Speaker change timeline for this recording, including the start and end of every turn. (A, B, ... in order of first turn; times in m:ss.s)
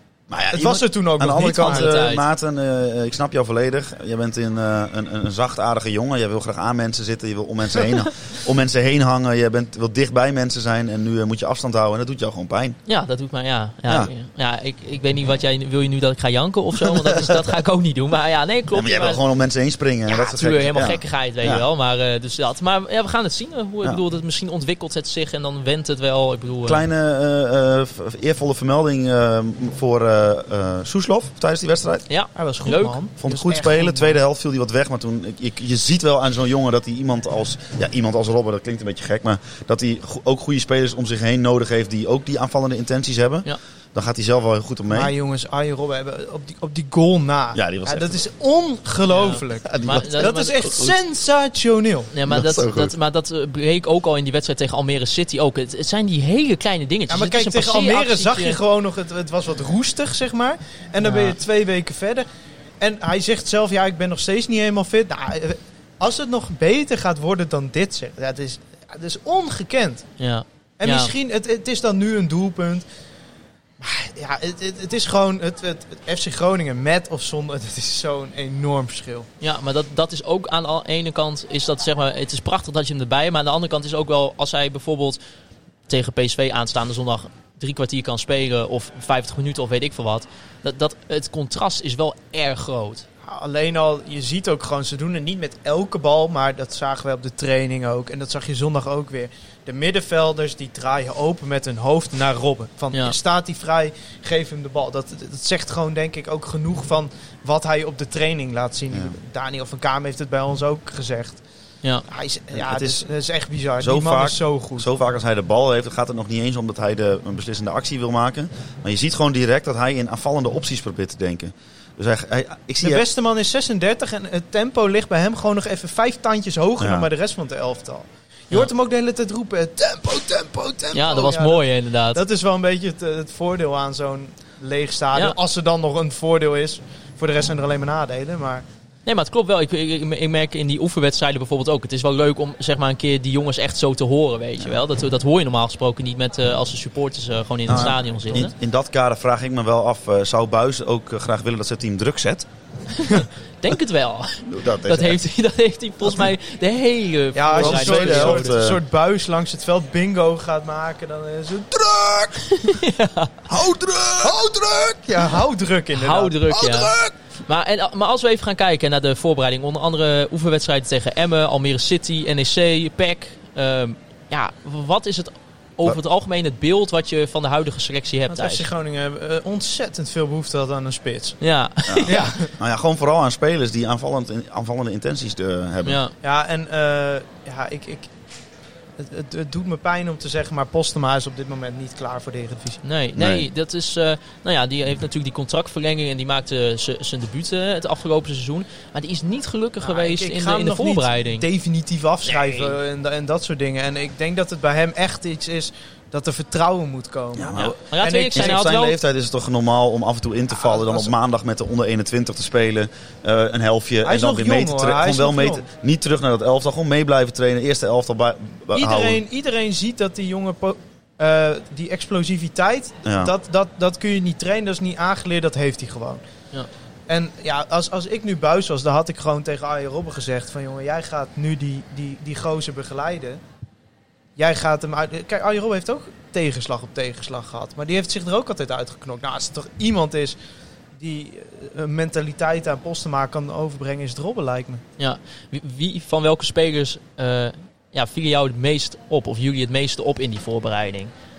0:00.3-0:12.8 A
0:00.5-0:02.1 B
0:01.6-0:02.2 C
0:12.9-0:19.2 C
0:18.7-0:21.6 A
0:20.1-0:26.8 C
0:26.6-0:32.0 A
0:32.1-0:33.0 C
0:32.3-0:34.2 B
0:33.2-0:45.1 A
0:44.9-0:52.1 B
0:47.5-0:48.2 A
0:49.1-0:50.7 C
0:49.6-0:50.9 A
0:52.1-0:58.6 C
0:52.3-0:52.9 A
0:57.1-1:02.3 B
1:01.0-1:01.4 C
1:02.8-1:10.1 B
1:10.2-1:11.1 C
1:10.8-1:12.8 B
1:13.8-1:19.3 B
1:19.4-1:25.2 C
1:25.9-1:33.0 C
1:33.2-1:51.4 B
1:52.1-1:54.9 B
1:52.5-1:53.0 A
1:53.8-2:03.0 A
2:02.8-2:18.6 B
2:06.8-2:07.1 A
2:10.9-2:12.2 C
2:19.0-2:28.5 C
2:27.7-2:32.5 A
2:33.0-2:38.6 C
2:34.4-2:35.2 A
2:37.3-2:42.7 B
2:37.5-2:38.8 A
2:42.5-2:43.4 C
2:43.5-2:44.4 A
2:44.2-2:47.1 B
2:45.9-2:46.9 C
2:47.5-2:58.7 C
2:58.3-3:01.4 B
3:01.4-3:02.4 C
3:01.9-3:06.0 A
3:02.0-3:02.5 B
3:05.8-3:06.1 C
3:06.2-3:08.1 B
3:09.0-3:12.8 B
3:12.8-3:21.4 C
3:13.2-3:13.5 A
3:19.8-3:28.7 B
3:22.3-3:22.7 C
3:27.4-3:27.8 A
3:27.5-3:29.0 C
3:28.3-3:39.2 A
3:30.5-3:31.1 B
3:34.0-3:35.6 B
3:38.7-3:46.2 B
3:43.0-3:43.3 A
3:47.1-3:53.4 B
3:54.4-4:00.4 B
4:01.0-4:04.8 B
4:05.0-4:11.1 C